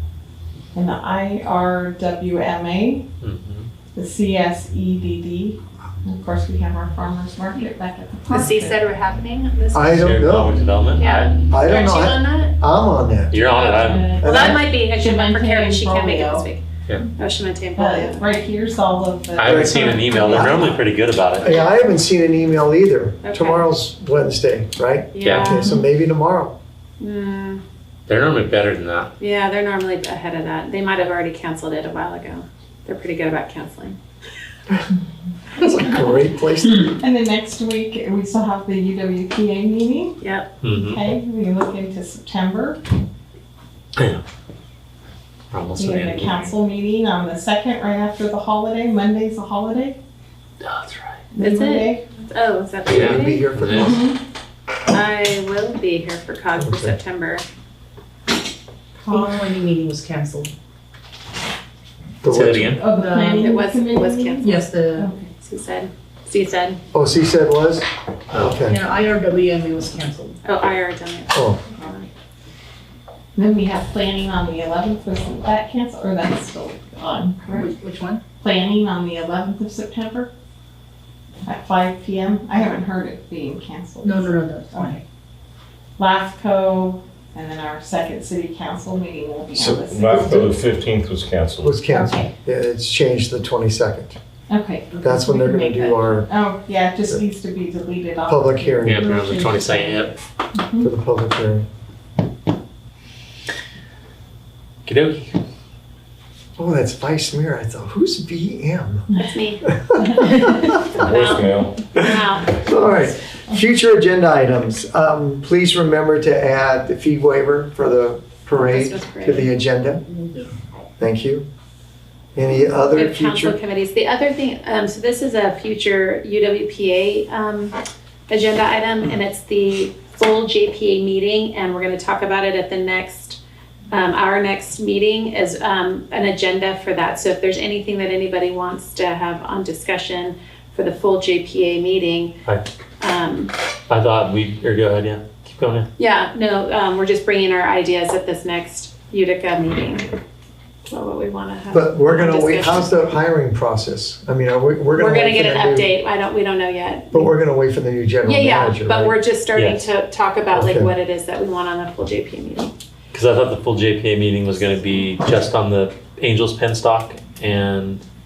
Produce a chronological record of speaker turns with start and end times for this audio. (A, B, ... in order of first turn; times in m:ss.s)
0:00.7-0:03.0 A
0:03.2-0:03.7 B
0:03.9-0:08.8 A
0:08.3-0:10.0 C
0:09.7-0:10.6 D
0:09.9-0:11.4 B
0:10.9-0:12.5 C
0:11.5-0:13.4 D
0:13.3-0:14.2 B
0:13.5-0:16.6 C
0:13.8-0:16.5 A
0:14.2-0:14.7 D
0:17.1-0:18.3 C
0:17.8-0:20.8 A
0:19.4-0:21.6 B
0:19.4-0:20.6 D
0:21.4-0:26.6 D
0:23.2-0:23.7 C
0:25.1-0:25.8 C
0:25.2-0:25.6 B
0:27.0-0:27.6 C
0:28.1-0:29.1 B
0:29.2-0:34.0 C
0:35.6-0:36.8 D
0:36.8-0:42.8 A
0:40.2-0:40.5 C
0:40.6-0:41.0 B
0:44.0-0:44.2 B
0:45.5-0:46.4 B
0:45.7-0:50.0 A
0:50.6-0:51.2 B
0:51.3-0:52.0 A
0:51.4-0:53.4 C
0:52.8-0:54.1 D
0:52.9-0:54.0 B
0:53.6-0:54.2 A
0:54.9-0:57.4 C
0:56.6-0:57.0 D
0:59.0-0:59.4 A
0:59.0-1:00.5 E
1:02.2-1:02.8 D
1:02.3-1:02.8 B
1:02.7-1:05.3 A
1:02.9-1:03.5 E
1:03.3-1:04.7 C
1:04.4-1:05.1 E
1:05.3-1:06.8 C
1:06.9-1:08.8 D
1:08.3-1:08.6 B
1:08.6-1:10.4 E
1:10.4-1:12.1 C
1:11.3-1:11.6 D
1:13.3-1:17.7 A
1:17.5-1:18.2 E
1:18.4-1:20.3 A
1:21.4-1:25.0 A
1:24.0-1:25.0 E
1:26.0-1:30.5 A
1:29.5-1:31.8 F
1:30.1-1:30.4 D
1:31.6-1:34.2 D
1:31.9-1:32.3 A
1:34.5-1:39.8 A
1:35.0-1:36.3 D
1:38.3-1:39.1 D
1:38.8-1:40.1 B
1:39.3-1:40.1 E
1:40.5-1:40.9 A
1:40.8-1:41.6 D
1:44.8-1:45.4 B
1:46.6-1:49.1 D
1:49.2-1:49.7 C
1:49.8-1:50.9 D
1:50.2-1:53.2 C
1:51.0-1:51.8 F
1:52.6-2:00.0 D
1:58.5-1:59.5 C
2:00.2-2:00.5 E
2:01.0-2:01.4 D
2:02.4-2:03.6 D
2:02.9-2:07.8 C
2:08.3-2:13.4 C
2:13.9-2:22.4 C
2:23.0-2:23.5 C
2:23.9-2:25.9 B
2:26.0-2:30.1 C
2:30.9-2:32.9 C
2:31.7-2:35.9 D
2:35.0-2:37.3 C
2:37.1-2:39.2 D
2:38.2-2:42.7 C
2:39.5-2:39.9 B
2:40.5-2:40.9 D
2:43.1-2:48.0 B